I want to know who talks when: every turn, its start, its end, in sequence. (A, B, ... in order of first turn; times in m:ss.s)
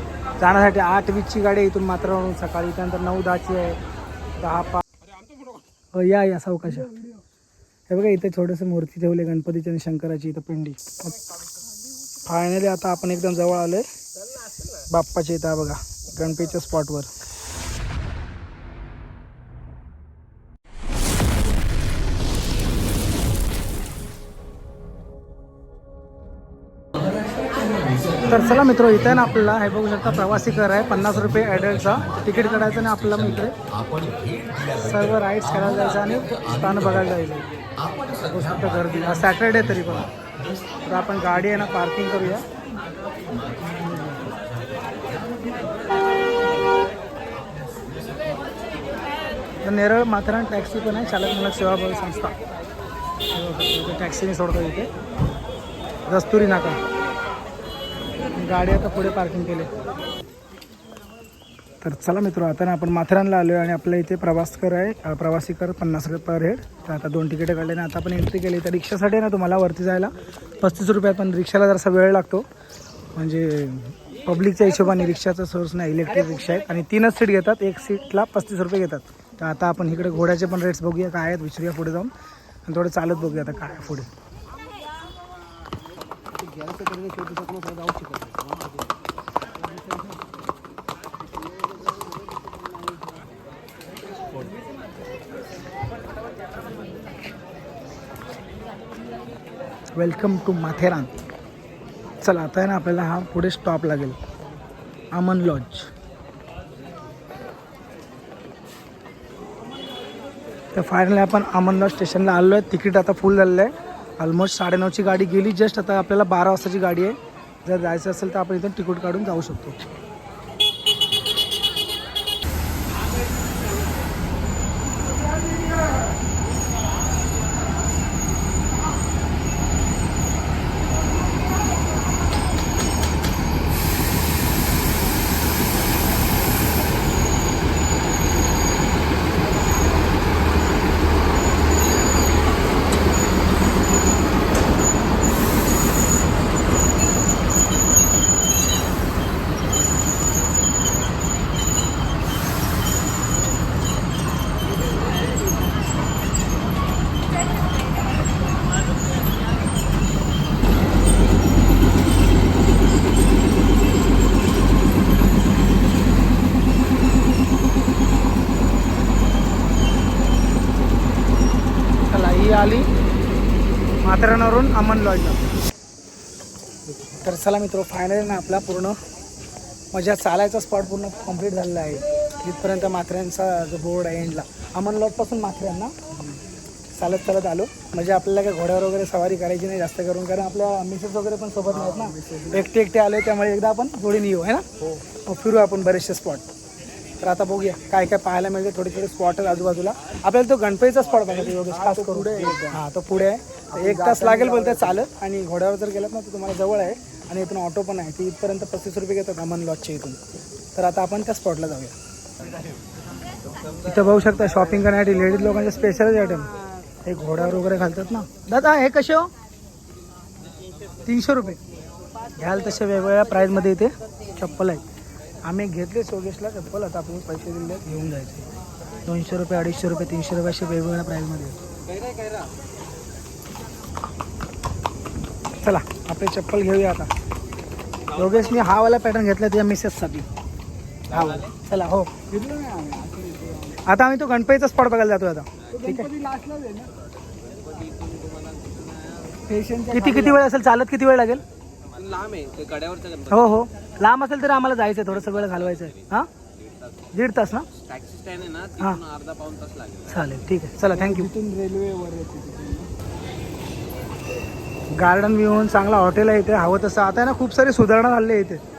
0:00.4-0:03.8 A
0:04.4-0:04.8 A
0:05.9-0:06.9 A
0:07.9-0:11.2 A
0:12.2-0:13.9 A
0:14.9-0:17.1 A
0:28.2-0:33.6 A
0:34.7-0:37.4 A
0:38.2-0:40.1 A
0:40.8-0:42.4 A
0:43.9-0:44.2 A
0:49.6-0:52.4 A
0:53.3-0:54.9 A
0:56.1-0:56.8 A
0:58.3-0:59.7 A
1:01.8-1:12.5 A
1:13.1-1:22.1 A
1:22.6-1:24.1 A
1:26.5-1:28.6 B
1:39.9-1:41.2 A
1:42.2-1:44.2 A
1:45.1-1:45.9 A
1:50.7-1:59.8 A
2:52.1-2:52.9 A
2:54.0-2:55.4 A
2:57.2-2:59.0 A
2:59.9-3:05.9 A
3:06.9-3:16.4 A
3:11.7-3:12.6 B
3:17.2-3:30.2 A
3:21.5-3:22.8 B
3:23.7-3:25.0 B
3:30.7-3:31.9 A
3:33.8-3:39.3 A
3:41.0-3:41.6 A
3:42.3-3:44.8 A
3:45.4-3:48.4 A
3:49.0-3:51.6 A
3:55.6-3:57.1 A
3:58.1-4:00.2 A
4:01.1-4:02.1 A
4:02.3-4:03.8 B
4:03.8-4:06.1 A
4:05.7-4:06.9 B
4:09.4-4:10.5 B
4:09.9-4:11.4 A
4:12.0-4:13.2 C
4:13.2-4:16.3 A
4:17.1-4:17.7 A
4:17.9-4:20.0 C
4:18.8-4:19.0 A
4:20.0-4:21.3 A
4:20.9-4:22.9 B
4:24.9-4:28.6 A